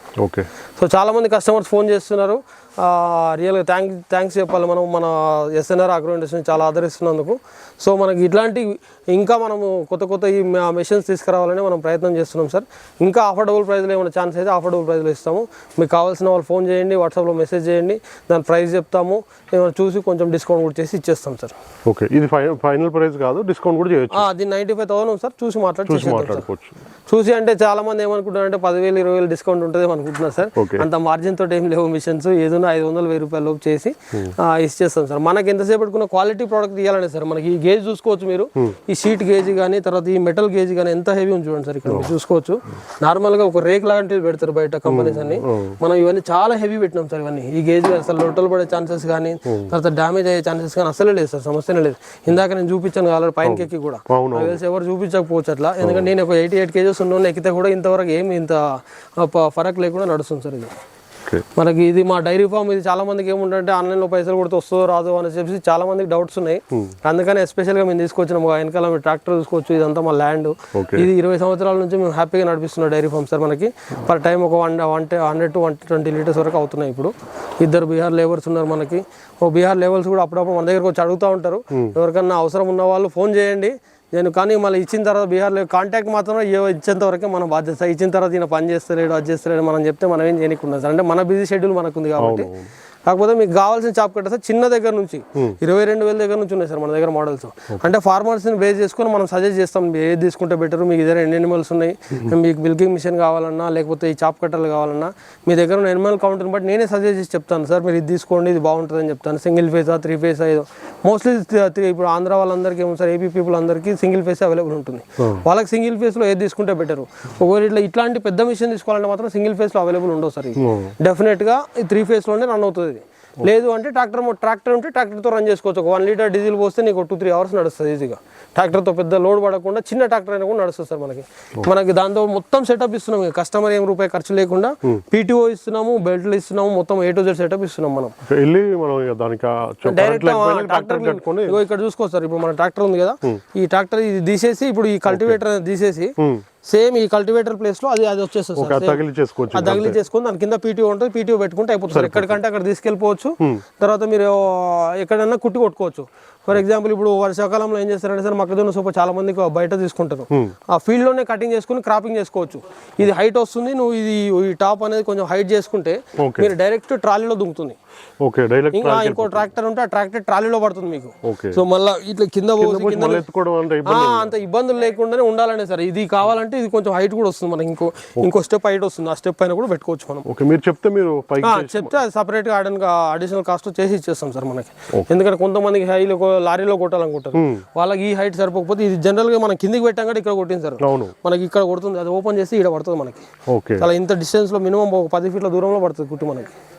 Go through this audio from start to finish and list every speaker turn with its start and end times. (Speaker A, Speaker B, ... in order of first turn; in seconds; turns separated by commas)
Speaker A: 0.2-0.5, Speaker B: 0.8-21.5, Speaker A: 21.9-24.3, Speaker B: 24.1-26.4, Speaker A: 25.9-26.8, Speaker B: 27.1-60.7, Speaker A: 30.6-30.9, Speaker A: 41.9-42.1, Speaker A: 44.9-45.8, Speaker A: 49.5-49.7, Speaker A: 53.4-54.6, Speaker A: 55.8-56.1, Speaker B: 61.5-92.5, Speaker A: 70.7-71.1, Speaker A: 92.2-92.7, Speaker B: 93.1-138.1, Speaker A: 115.2-115.4, Speaker A: 120.6-120.9, Speaker A: 138.2-141.6, Speaker B: 139.8-146.1, Speaker A: 145.1-145.4, Speaker A: 146.2-146.4, Speaker B: 146.7-149.0, Speaker A: 148.6-150.0, Speaker B: 149.5-167.8, Speaker A: 151.9-152.4, Speaker A: 166.2-166.5, Speaker A: 168.2-169.5, Speaker B: 168.7-173.2, Speaker A: 171.2-171.6, Speaker A: 172.6-174.3, Speaker B: 173.8-180.2, Speaker A: 180.2-182.0, Speaker B: 181.4-193.3, Speaker A: 187.3-187.7, Speaker A: 190.8-191.1, Speaker A: 193.5-193.9, Speaker B: 193.8-196.5